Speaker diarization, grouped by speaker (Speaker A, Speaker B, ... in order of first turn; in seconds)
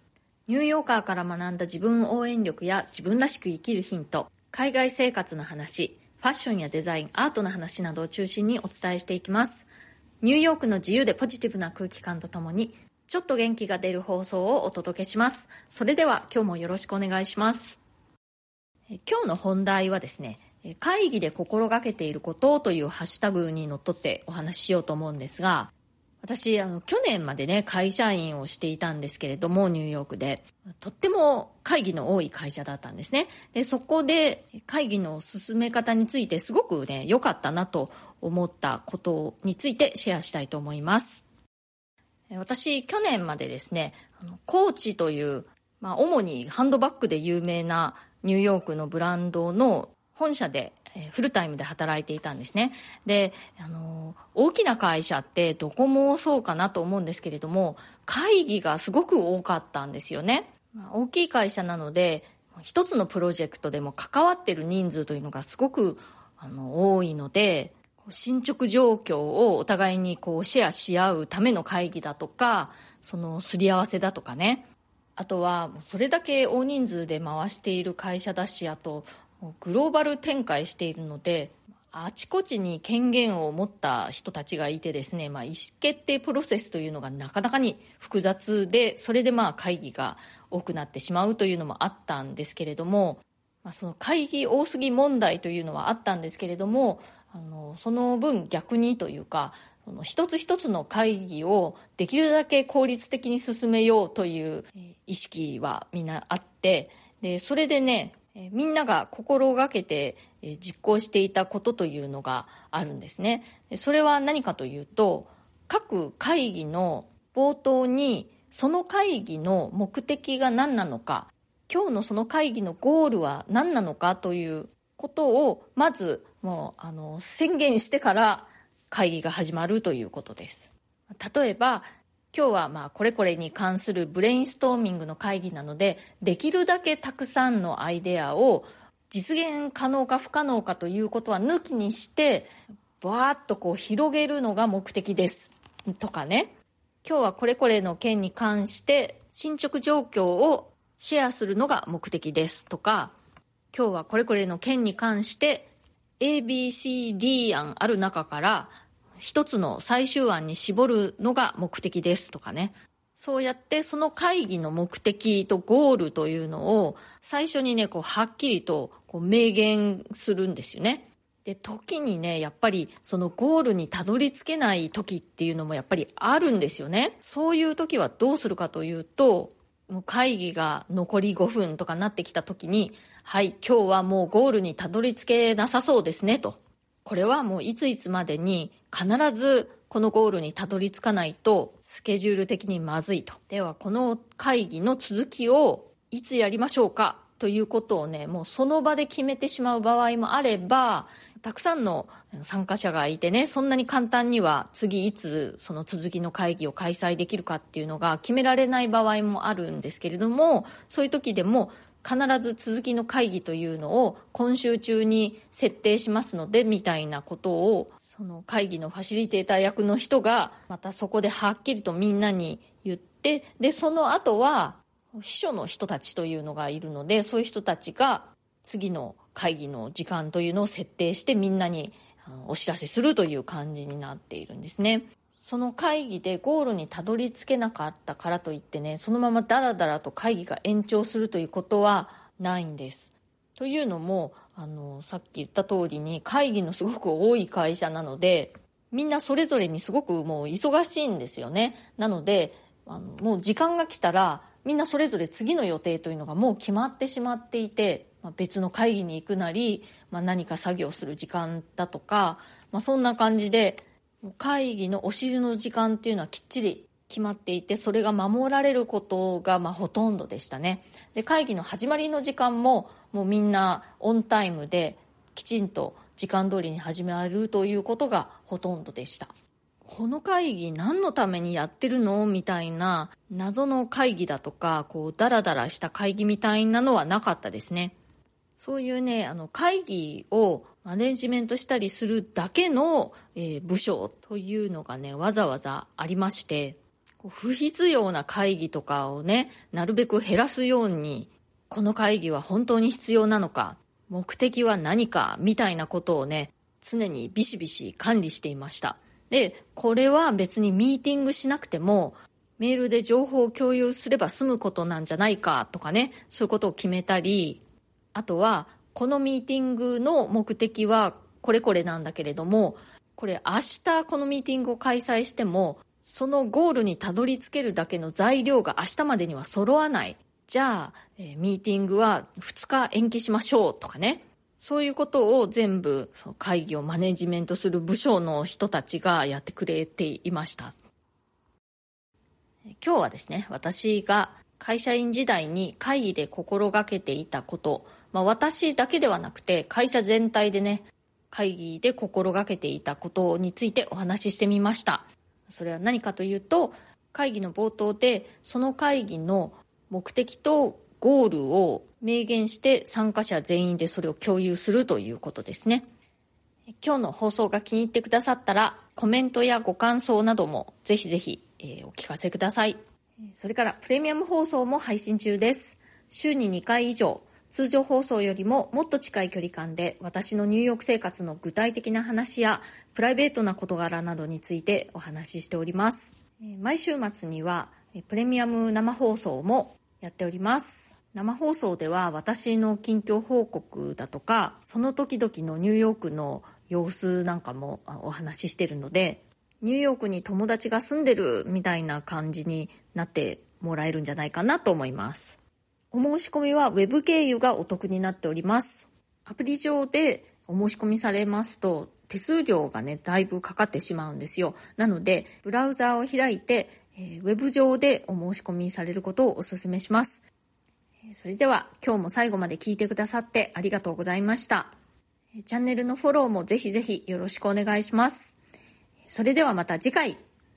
Speaker A: 0.5-9.7, 10.2-17.8, 18.9-41.2, 42.3-74.7, 75.2-153.1, 153.7-279.3, 279.8-287.9, 288.6-317.6, 318.1-340.7, 342.8-365.9, 366.8-372.8, 373.3-405.4, 405.9-420.2, 421.1-424.7, 425.4-428.4, 429.1-430.2